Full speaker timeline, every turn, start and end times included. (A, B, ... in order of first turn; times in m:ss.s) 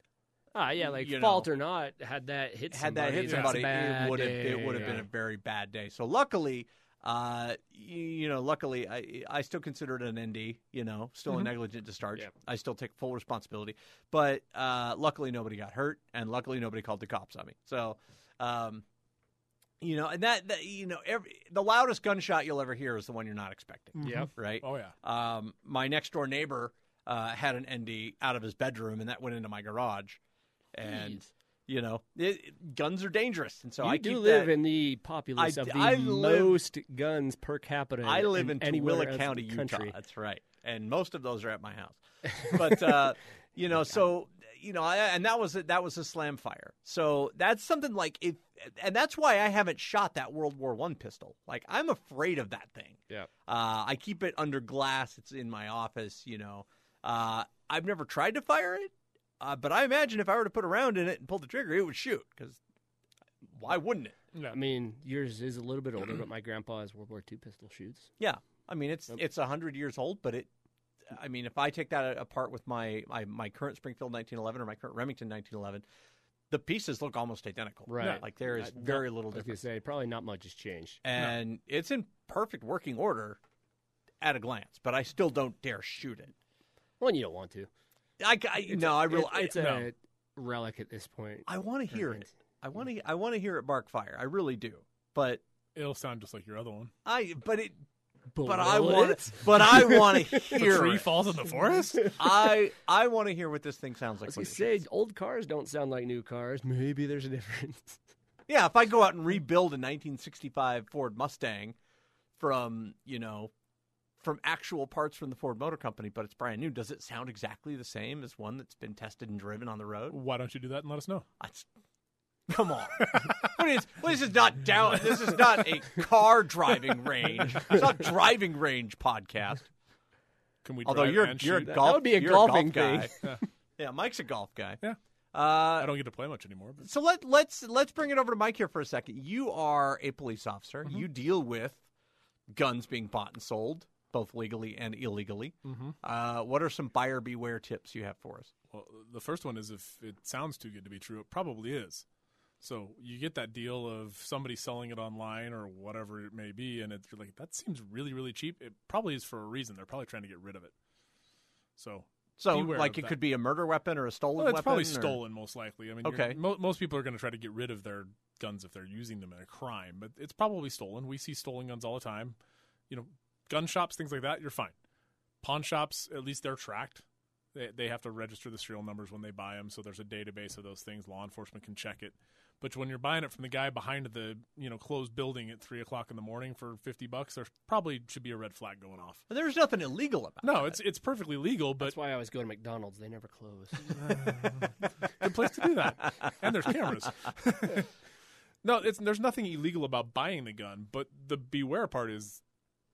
0:00.5-0:05.0 A
0:00.8-0:01.5 B
0:02.7-0:18.8 B
0:03.3-0:03.6 C
0:19.8-0:30.2 B
0:24.0-0:24.9 C
0:24.0-0:24.3 A
0:30.7-0:34.5 B
0:30.8-0:31.2 A
0:33.8-0:40.0 A
0:35.4-0:36.6 B
0:38.0-1:02.6 B
1:03.5-1:04.2 B
1:04.5-1:08.1 A
1:08.2-1:10.5 B
1:11.1-1:15.8 B
1:16.5-1:19.6 B
1:17.9-1:21.0 A
1:21.0-1:23.4 B
1:24.2-1:26.3 B
1:27.0-1:27.7 A
1:28.2-1:29.6 B
1:28.7-1:32.3 A
1:29.6-1:29.9 C
1:31.5-1:35.4 B
1:35.8-1:36.9 C
1:37.1-1:37.8 B
1:38.3-1:40.6 A
1:38.4-1:41.1 B
1:40.5-1:42.2 C
1:42.2-1:44.8 B
1:44.2-1:48.0 A
1:48.5-1:51.8 B
1:52.4-1:53.5 B
1:54.2-2:00.2 B
2:00.1-2:01.3 C
2:01.4-2:01.7 B
2:02.5-2:09.7 B
2:10.6-2:11.8 C
2:10.8-2:13.3 B
2:11.6-2:13.3 A
2:13.8-2:14.8 B
2:15.3-2:15.9 B
2:15.8-2:16.8 C
2:16.8-2:21.8 B
2:22.5-2:28.5 B
2:25.6-2:26.0 C
2:28.7-2:32.0 C
2:32.6-2:40.7 C
2:41.8-2:43.2 C
2:42.4-2:45.2 B
2:44.4-2:52.4 C
2:46.0-2:46.4 B
2:52.9-2:54.7 C
2:55.4-3:09.2 C
3:09.3-3:10.8 B
3:10.4-3:12.0 C
3:11.8-3:14.2 A
3:13.9-3:17.9 C
3:18.6-3:22.4 C